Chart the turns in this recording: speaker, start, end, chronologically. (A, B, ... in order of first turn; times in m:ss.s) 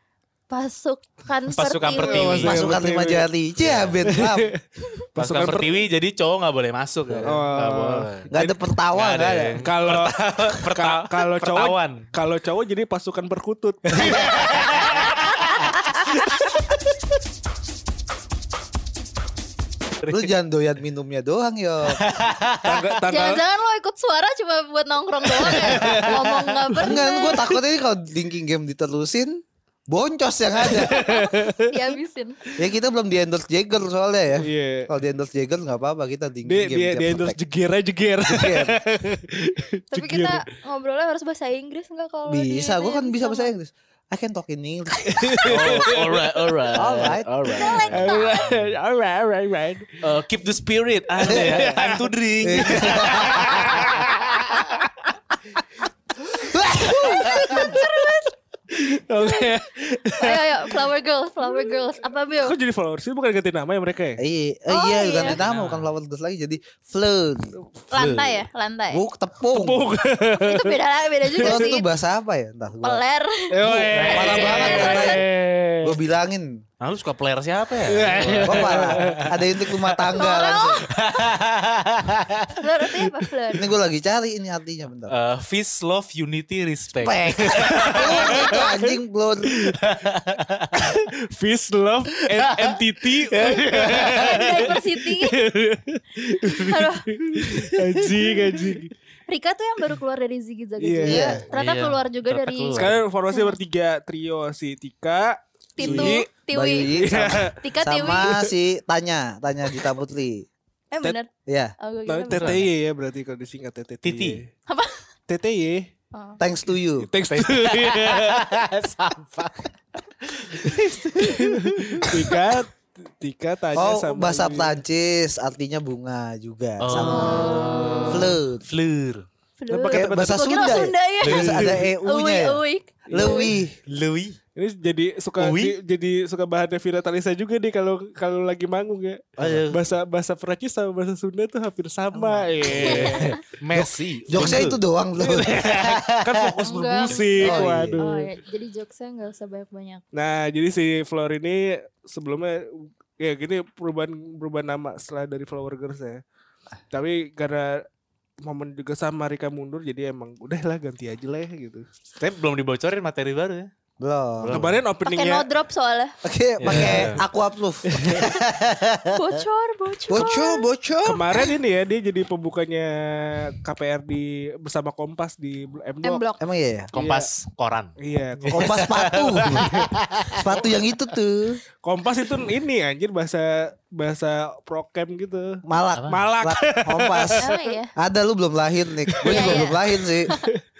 0:00.5-0:02.5 A
0:01.5-0:02.8 B
0:01.9-0:03.3 C
0:02.4-0:04.5 D
0:03.6-0:04.0 B
0:04.1-0:04.6 C
0:05.2-0:05.8 C
0:05.2-0:08.3 B
0:07.1-0:07.4 D
0:07.2-0:08.6 C
0:08.3-0:09.6 D
0:08.9-0:12.1 B
0:09.6-0:14.9 C
0:14.0-0:15.7 B
0:20.0-0:20.3 B
0:20.1-0:22.1 D
0:21.9-0:22.9 B
0:22.6-0:23.4 C
0:23.1-0:27.5 A
0:25.5-0:26.4 B
0:25.6-0:26.2 C
0:26.8-0:31.1 D
0:30.6-0:32.0 C
0:30.9-0:32.4 A
0:32.6-0:37.4 D
0:34.4-0:34.9 C
0:36.5-0:40.4 C
0:38.3-0:38.8 D
0:39.9-0:43.5 A
0:42.3-0:45.6 D
0:45.0-0:46.5 C
0:45.4-0:48.6 B
0:46.8-0:47.9 D
0:47.5-0:48.5 A
0:47.9-0:50.0 C
0:50.0-0:54.1 B
0:51.2-0:54.8 C
0:51.3-0:51.6 D
0:52.4-0:53.9 D
0:56.3-0:58.1 C
0:56.4-0:57.8 D
0:56.8-0:58.3 A
0:58.7-1:00.8 C
0:59.2-0:59.5 A
1:00.2-1:02.6 A
1:01.4-1:01.8 C
1:02.4-1:04.2 C
1:04.2-1:07.6 D
1:04.7-1:05.4 A
1:05.2-1:05.9 B
1:07.9-1:09.0 A
1:07.9-1:08.4 B
1:08.9-1:09.9 D
1:09.5-1:10.8 C
1:10.4-1:11.9 A
1:11.3-1:11.7 C
1:11.4-1:13.0 D
1:12.8-1:13.6 A
1:13.5-1:16.0 C
1:13.6-1:15.3 D
1:13.9-1:15.1 B
1:14.1-1:15.2 A
1:15.8-1:16.5 D
1:16.8-1:19.4 B
1:17.9-1:19.3 C
1:18.4-1:20.9 D
1:20.1-1:21.0 A
1:20.9-1:22.5 B
1:22.6-1:23.6 A
1:23.5-1:25.2 D
1:25.1-1:28.6 B
1:27.0-1:29.7 D
1:27.8-1:28.9 C
1:28.3-1:28.6 A
1:29.8-1:30.9 B
1:30.7-1:38.9 C
1:32.3-1:34.8 B
1:34.1-1:35.4 A
1:36.4-1:37.1 A
1:37.4-1:38.0 B
1:39.3-1:43.6 A
1:40.8-1:41.4 C
1:41.0-1:41.4 D
1:41.5-1:43.0 B
1:42.8-1:46.3 C
1:45.8-1:47.1 A
1:45.8-1:50.5 D
1:46.9-1:47.6 C
1:47.6-1:48.5 A
1:50.9-1:52.6 A
1:51.5-1:51.8 D
1:52.1-1:54.5 C
1:52.3-1:52.7 B
1:54.0-1:54.4 B
1:54.7-1:55.0 A
1:55.3-1:55.9 C
1:56.1-1:56.4 A
1:56.4-1:57.1 D
1:57.0-1:58.5 C
1:57.3-1:59.7 B
2:00.4-2:02.1 B
2:00.6-2:04.8 C
2:03.8-2:08.6 D
2:06.8-2:09.3 B
2:07.1-2:08.2 A
2:07.7-2:08.2 C
2:09.6-2:13.5 A
2:09.7-2:10.8 C
2:09.8-2:12.6 D
2:11.2-2:11.9 B
2:13.1-2:13.5 C
2:13.1-2:13.8 D
2:13.9-2:14.4 B
2:14.6-2:23.4 C
2:15.4-2:15.8 B
2:19.4-2:19.8 B
2:22.6-2:24.8 B
2:22.7-2:23.2 D
2:22.8-2:23.4 A
2:23.7-2:26.1 D
2:25.2-2:28.3 C
2:25.4-2:26.3 B
2:26.6-2:30.0 A
2:27.4-2:28.0 D
2:30.1-2:36.2 C
2:36.9-2:37.8 C
2:38.4-2:41.9 C
2:42.2-2:43.7 B
2:44.0-2:44.6 D
2:44.4-2:44.8 B
2:44.5-2:45.5 C
2:45.1-2:46.2 A
2:46.2-2:49.2 D
2:46.6-2:47.2 B
2:46.7-2:47.1 C
2:48.0-2:48.3 C
2:49.1-2:50.7 A
2:50.1-2:51.4 D
2:51.0-2:56.2 C
2:56.0-2:56.4 A
2:56.4-2:56.9 D
2:56.9-3:00.5 B
2:57.0-2:57.3 C
2:58.0-2:59.9 C
2:58.5-2:59.8 D
3:00.3-3:01.6 D
3:01.8-3:07.7 C
3:05.7-3:10.3 D
3:06.0-3:06.3 B
3:07.4-3:07.9 A
3:09.0-3:10.6 C
3:09.2-3:10.4 A